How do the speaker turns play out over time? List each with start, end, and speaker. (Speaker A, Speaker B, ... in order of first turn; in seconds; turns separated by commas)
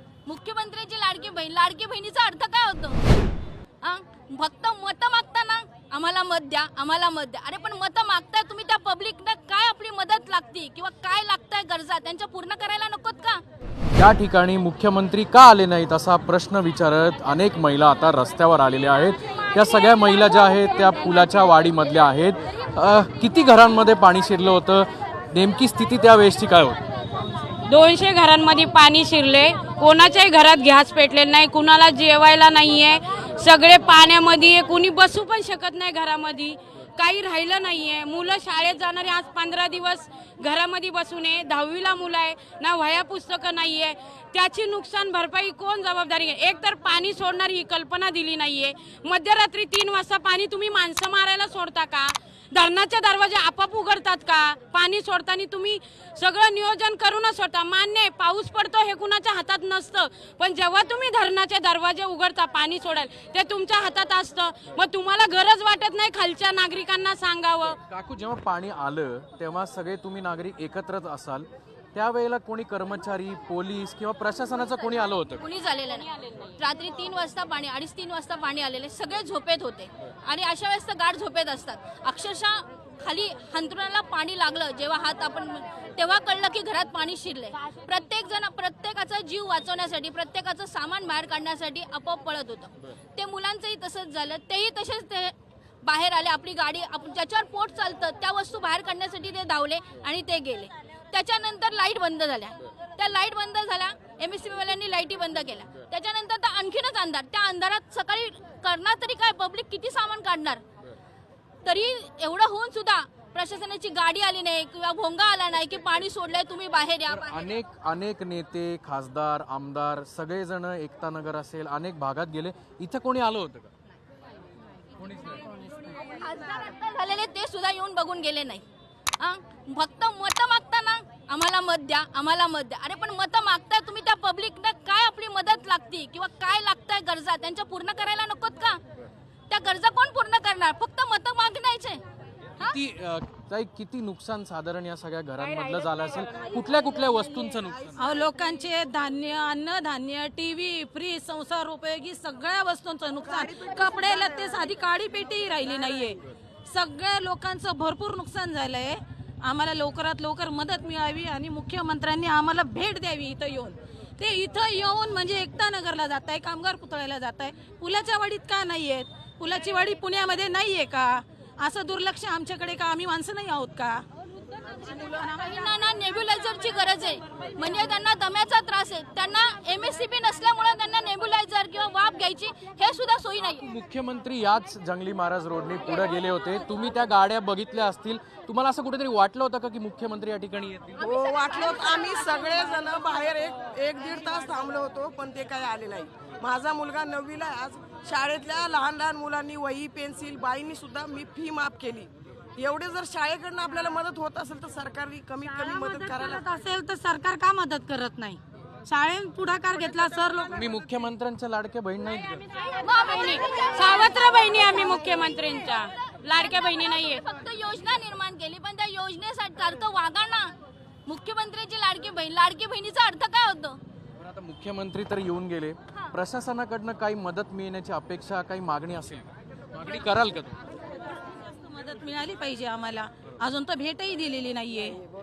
Speaker A: 0.2-3.0, Speaker A: 3.8-13.4, Speaker B: 13.9-26.8, Speaker C: 27.6-67.8, Speaker B: 67.8-75.4, Speaker A: 75.4-110.6, Speaker A: 111.6-117.5, Speaker B: 117.1-123.7, Speaker B: 125.0-125.5, Speaker A: 126.0-128.6, Speaker A: 129.2-138.8, Speaker A: 139.5-142.0, Speaker B: 142.6-148.0, Speaker D: 147.9-174.0, Speaker E: 153.2-154.7, Speaker A: 174.9-183.6, Speaker D: 175.0-175.6, Speaker B: 183.4-191.0, Speaker E: 191.0-206.4, Speaker A: 191.0-192.7, Speaker D: 205.5-210.5, Speaker B: 210.5-212.4, Speaker C: 212.8-217.2, Speaker A: 212.8-214.3, Speaker A: 216.5-220.5, Speaker A: 221.1-223.8, Speaker B: 224.2-230.6, Speaker D: 231.5-235.0